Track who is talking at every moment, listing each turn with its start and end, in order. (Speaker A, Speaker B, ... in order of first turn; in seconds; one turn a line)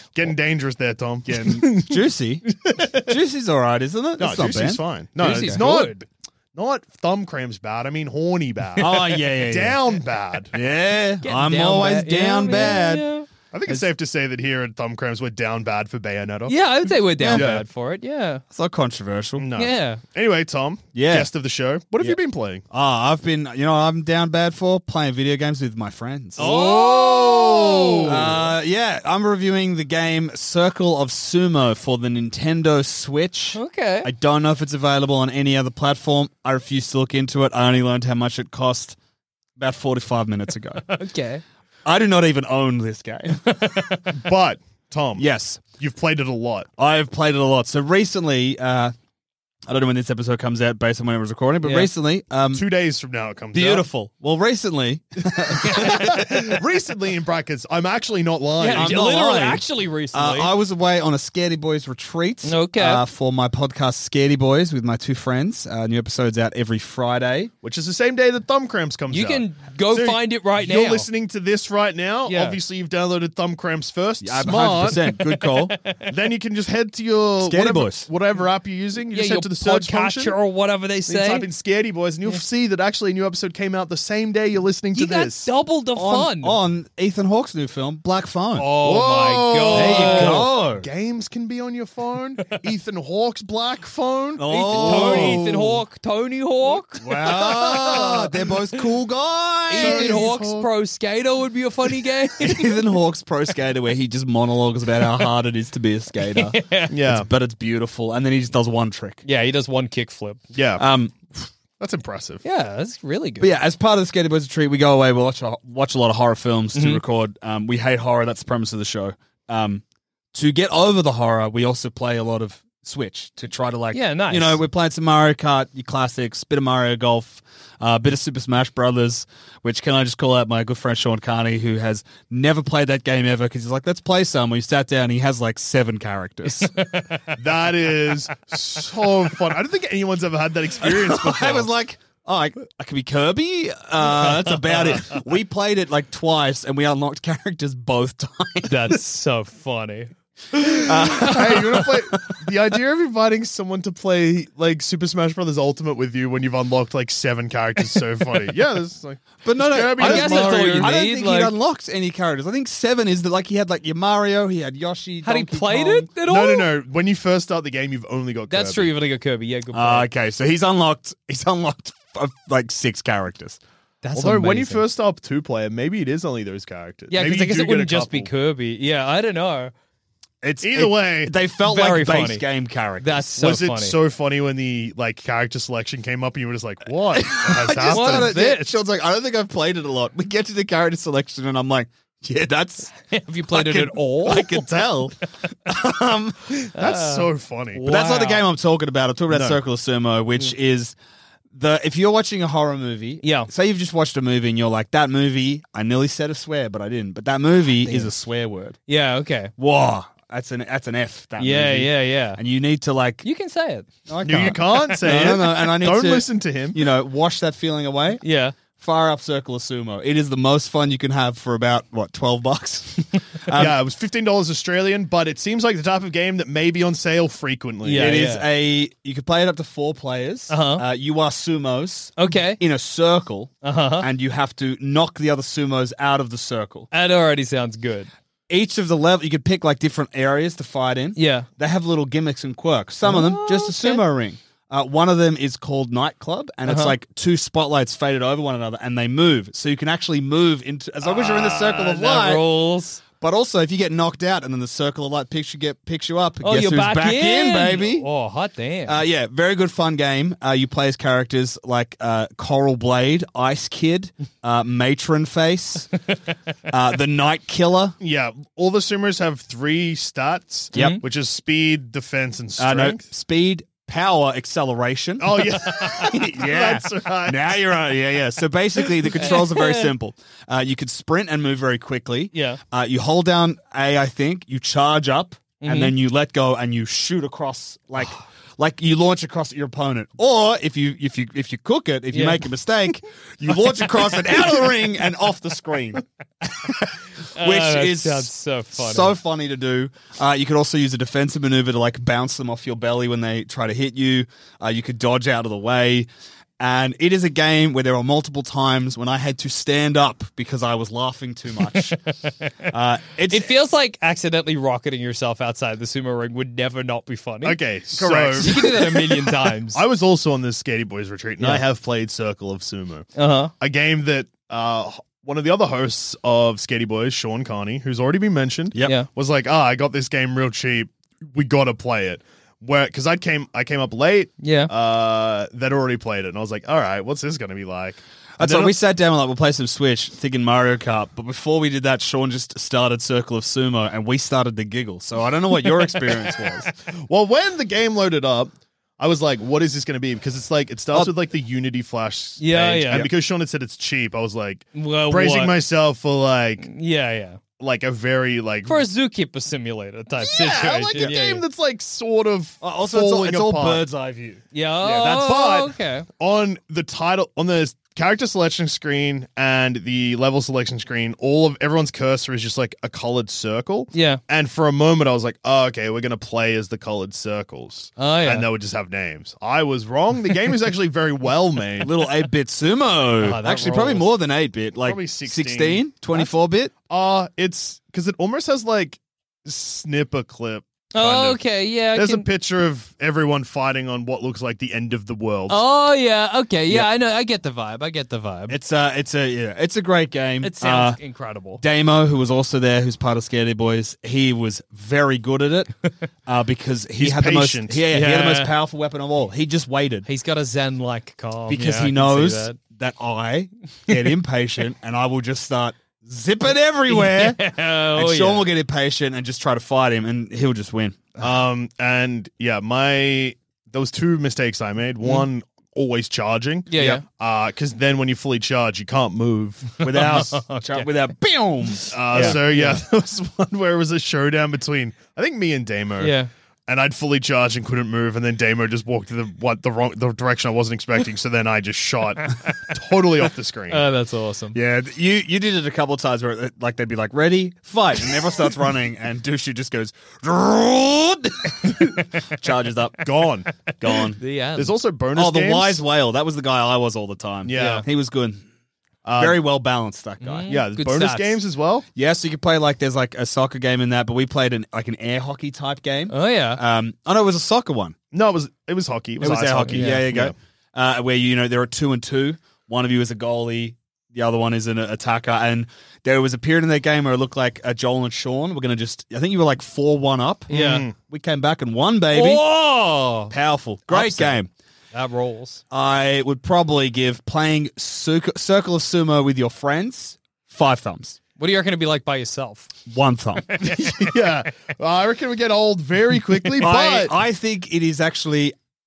Speaker A: 0.1-2.0
Speaker B: 1.2-5.6
Speaker A: 2.6-3.0
Speaker A: 4.2-10.5
Speaker C: 5.2-6.0
Speaker B: 8.8-9.8
Speaker B: 10.5-13.0
Speaker C: 11.2-13.2
Speaker A: 13.5-16.6
Speaker C: 16.5-18.4
Speaker B: 17.2-17.5
Speaker A: 17.3-17.6
Speaker B: 18.5-19.5
Speaker A: 19.4-22.6
Speaker C: 19.6-20.0
Speaker B: 20.9-21.3
Speaker B: 22.7-26.5
Speaker A: 26.4-28.5
Speaker C: 26.4-28.1
Speaker B: 28.1-39.0
Speaker C: 33.5-34.1
Speaker B: 39.6-40.9
Speaker C: 40.9-41.4
Speaker B: 41.8-43.4
Speaker C: 43.5-44.1
Speaker A: 44.1-45.3
Speaker B: 45.2-45.6
Speaker A: 45.8-46.7
Speaker B: 46.8-48.9
Speaker B: 49.7-52.7
Speaker C: 51.6-51.9
Speaker A: 52.5-53.9
Speaker B: 53.5-56.6
Speaker C: 55.6-56.0
Speaker A: 55.6-59.0
Speaker C: 58.6-60.5
Speaker B: 58.7-67.5
Speaker C: 62.4-63.0
Speaker A: 67.6-75.0
Speaker C: 69.1-71.1
Speaker C: 72.3-72.6
Speaker B: 74.2-75.8
Speaker C: 75.2-76.0
Speaker A: 76.1-80.3
Speaker B: 77.4-78.1
Speaker C: 79.1-81.5
Speaker A: 81.1-85.5
Speaker C: 84.9-86.6
Speaker B: 86.0-88.7
Speaker C: 88.5-90.5
Speaker A: 88.8-95.8
Speaker B: 89.7-90.9
Speaker B: 94.4-95.5
Speaker C: 94.5-98.1
Speaker B: 97.0-100.3
Speaker A: 97.2-98.3
Speaker C: 99.7-102.8
Speaker A: 99.7-100.7
Speaker B: 102.4-109.2
Speaker C: 106.3-106.9
Speaker A: 106.9-107.3
Speaker C: 109.2-110.4
Speaker A: 110.5-110.8
Speaker B: 110.8-111.1
Speaker A: 111.8-112.4
Speaker C: 112.4-113.5
Speaker B: 113.4-119.8
Speaker C: 116.7-117.0
Speaker B: 120.3-136.7
Speaker C: 123.9-124.6
Speaker C: 136.5-137.4
Speaker A: 137.4-141.7
Speaker B: 140.8-149.0
Speaker C: 144.4-144.9
Speaker C: 148.7-150.1
Speaker A: 150.5-161.0
Speaker B: 150.8-152.0
Speaker C: 151.2-151.6
Speaker B: 159.4-166.1
Speaker C: 160.0-161.5
Speaker C: 165.2-166.7
Speaker A: 166.3-168.9
Speaker C: 168.5-170.1
Speaker B: 169.7-173.6
Speaker C: 174.0-174.8
Speaker A: 174.1-178.3
Speaker C: 177.1-179.7
Speaker B: 180.4-183.3
Speaker A: 180.6-181.3
Speaker C: 181.6-182.4
Speaker C: 183.0-183.9
Speaker A: 183.4-188.3
Speaker B: 187.1-192.9
Speaker C: 187.8-188.7
Speaker C: 193.0-194.7
Speaker B: 193.5-196.6
Speaker A: 196.6-197.8
Speaker C: 196.7-198.4
Speaker B: 197.8-200.9
Speaker A: 199.3-199.6
Speaker B: 201.5-208.8
Speaker C: 203.2-203.5
Speaker C: 207.8-208.1
Speaker C: 208.9-209.5
Speaker B: 209.6-213.2
Speaker C: 211.4-212.4
Speaker C: 213.2-213.9
Speaker B: 214.1-218.2
Speaker A: 214.2-216.8
Speaker C: 214.5-214.9
Speaker C: 218.2-218.5
Speaker B: 218.8-223.8
Speaker A: 223.5-228.2
Speaker C: 227.8-228.5
Speaker B: 227.9-236.9
Speaker C: 230.5-230.8
Speaker C: 232.2-232.6
Speaker C: 233.6-234.1
Speaker C: 236.9-238.1
Speaker B: 238.5-252.4
Speaker C: 241.2-241.5
Speaker C: 243.0-244.0
Speaker C: 246.7-246.9
Speaker C: 251.0-253.0
Speaker B: 253.2-258.1
Speaker C: 256.4-259.0
Speaker B: 258.9-265.9
Speaker B: 266.7-268.0
Speaker A: 268.0-273.0
Speaker C: 270.7-271.0
Speaker B: 270.7-271.0
Speaker B: 272.6-306.1
Speaker A: 275.2-277.7
Speaker C: 279.2-279.9
Speaker C: 282.3-282.6
Speaker C: 285.6-285.9
Speaker C: 292.1-292.4
Speaker C: 297.3-299.1
Speaker B: 306.6-312.0
Speaker B: 312.7-313.5
Speaker C: 313.3-317.6
Speaker A: 317.4-323.1
Speaker B: 317.9-318.9
Speaker C: 318.4-319.8
Speaker B: 321.4-321.6
Speaker C: 323.1-323.5
Speaker A: 323.6-338.8
Speaker C: 334.4-334.7
Speaker B: 338.4-346.7
Speaker A: 347.1-356.7
Speaker C: 352.4-353.1
Speaker C: 354.7-355.6
Speaker C: 356.6-357.4
Speaker A: 357.6-358.8
Speaker C: 358.6-361.4
Speaker A: 360.2-363.8
Speaker B: 362.6-364.4
Speaker C: 364.5-366.1
Speaker A: 364.8-382.1
Speaker C: 373.9-374.2
Speaker C: 378.0-378.4
Speaker B: 381.8-386.7
Speaker C: 383.2-384.1
Speaker A: 384.8-386.3
Speaker A: 386.9-395.6
Speaker C: 390.9-392.2
Speaker C: 395.5-398.6
Speaker B: 398.5-401.0
Speaker C: 400.4-401.6
Speaker B: 401.6-405.7
Speaker B: 406.2-410.1
Speaker A: 407.0-407.8
Speaker C: 407.9-408.5
Speaker C: 410.1-412.6
Speaker B: 411.5-421.0
Speaker C: 416.9-418.4
Speaker A: 421.2-430.3
Speaker C: 426.7-427.0
Speaker B: 426.8-427.0
Speaker B: 429.8-432.4
Speaker C: 429.8-430.9
Speaker A: 431.9-443.8
Speaker C: 432.1-432.8
Speaker C: 436.0-436.3
Speaker C: 443.7-444.6
Speaker B: 444.5-453.1
Speaker A: 453.0-453.5
Speaker B: 453.8-454.2
Speaker C: 454.1-454.7
Speaker A: 454.6-455.8
Speaker B: 455.1-458.4
Speaker A: 457.4-457.8
Speaker C: 457.5-457.8
Speaker A: 459.0-459.4
Speaker B: 459.2-460.6
Speaker C: 460.2-461.4
Speaker A: 460.5-461.9
Speaker B: 461.9-467.9
Speaker C: 466.1-466.6
Speaker A: 468.1-470.3
Speaker B: 469.2-482.4
Speaker C: 469.7-470.1
Speaker C: 480.5-480.9
Speaker A: 480.5-480.9
Speaker C: 482.1-483.3
Speaker B: 483.3-484.5
Speaker C: 483.9-484.4
Speaker C: 484.9-485.6
Speaker B: 485.7-491.2
Speaker C: 491.4-492.7
Speaker B: 492.9-493.5
Speaker C: 493.4-494.1
Speaker A: 493.7-497.1
Speaker B: 496.6-498.6